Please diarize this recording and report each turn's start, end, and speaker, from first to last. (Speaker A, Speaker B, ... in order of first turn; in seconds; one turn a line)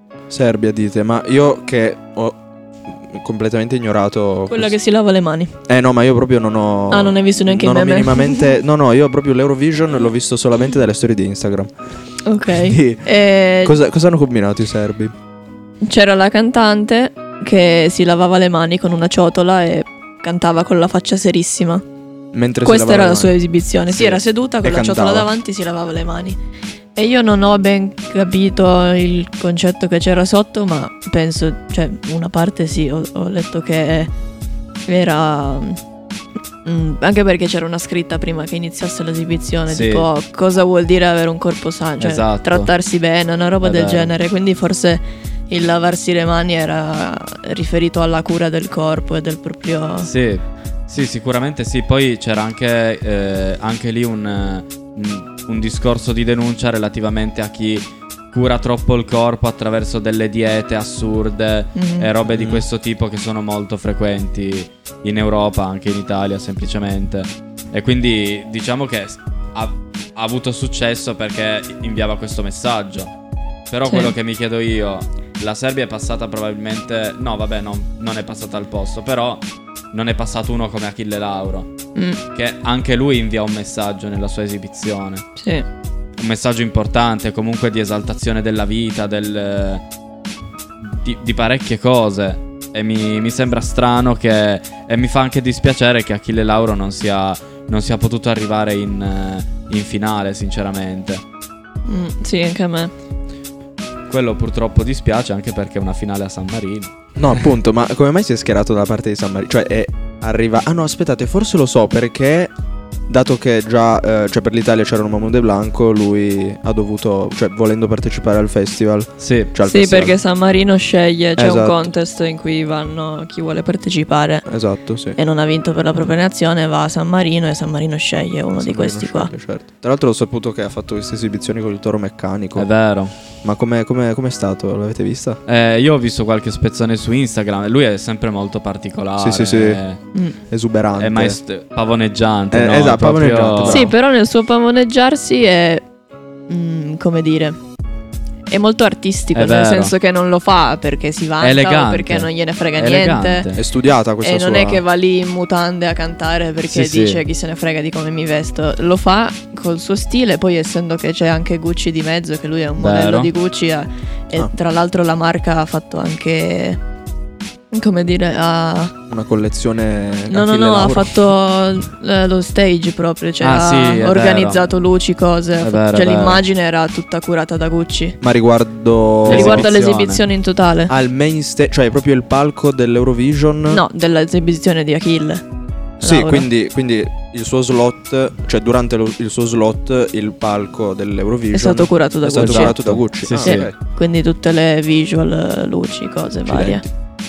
Speaker A: 0.3-4.7
Speaker B: 4.5-5.5
Speaker A: 5.7-11.7
Speaker B: 6.9-8.5
Speaker B: 12.2-13.8
Speaker A: 12.5-13.1
Speaker A: 13.6-15.1
Speaker B: 15.8-21.8
Speaker A: 22.3-23.3
Speaker B: 22.6-26.4
Speaker A: 23.9-25.3
Speaker B: 27.0-34.1
Speaker B: 34.9-35.8
Speaker B: 36.6-50.1
Speaker C: 39.7-40.1
Speaker C: 42.0-42.7
Speaker C: 43.6-44.1
Speaker C: 50.0-73.1
Speaker B: 61.7-62.1
Speaker A: 62.3-62.7
Speaker C: 73.7-81.7
Speaker B: 73.9-74.1
Speaker B: 82.0-82.2
Speaker C: 82.3-85.2
Speaker B: 85.4-85.7
Speaker C: 86.2-89.8
Speaker C: 90.8-101.2
Speaker B: 101.8-102.9
Speaker C: 104.1-106.9
Speaker A: 107.2-112.5
Speaker A: 113.1-120.2
Speaker C: 119.2-119.5
Speaker B: 119.6-124.5
Speaker A: 121.3-121.9
Speaker A: 124.5-125.2
Speaker B: 125.2-129.3
Speaker A: 128.6-132.7
Speaker C: 132.5-133.2
Speaker A: 133.4-135.4
Speaker C: 135.5-140.0
Speaker A: 139.2-139.8
Speaker A: 140.5-141.4
Speaker C: 141.0-143.9
Speaker A: 142.5-143.9
Speaker B: 143.6-145.8
Speaker B: 146.5-147.6
Speaker B: 148.5-153.5
Speaker C: 149.3-149.9
Speaker C: 151.4-153.6
Speaker A: 153.6-154.8
Speaker B: 154.2-166.8
Speaker C: 156.7-157.2
Speaker C: 162.8-163.3
Speaker B: 167.7-168.9
Speaker A: 169.1-171.2
Speaker B: 170.3-178.2
Speaker C: 173.4-174.6
Speaker C: 175.6-176.4
Speaker A: 178.2-179.8
Speaker C: 179.2-180.2
Speaker B: 179.3-180.9
Speaker A: 180.9-183.8
Speaker B: 183.7-185.4
Speaker B: 186.0-186.5
Speaker A: 186.0-193.8
Speaker B: 191.5-192.8
Speaker C: 192.4-193.7
Speaker B: 193.4-196.8
Speaker A: 196.4-196.9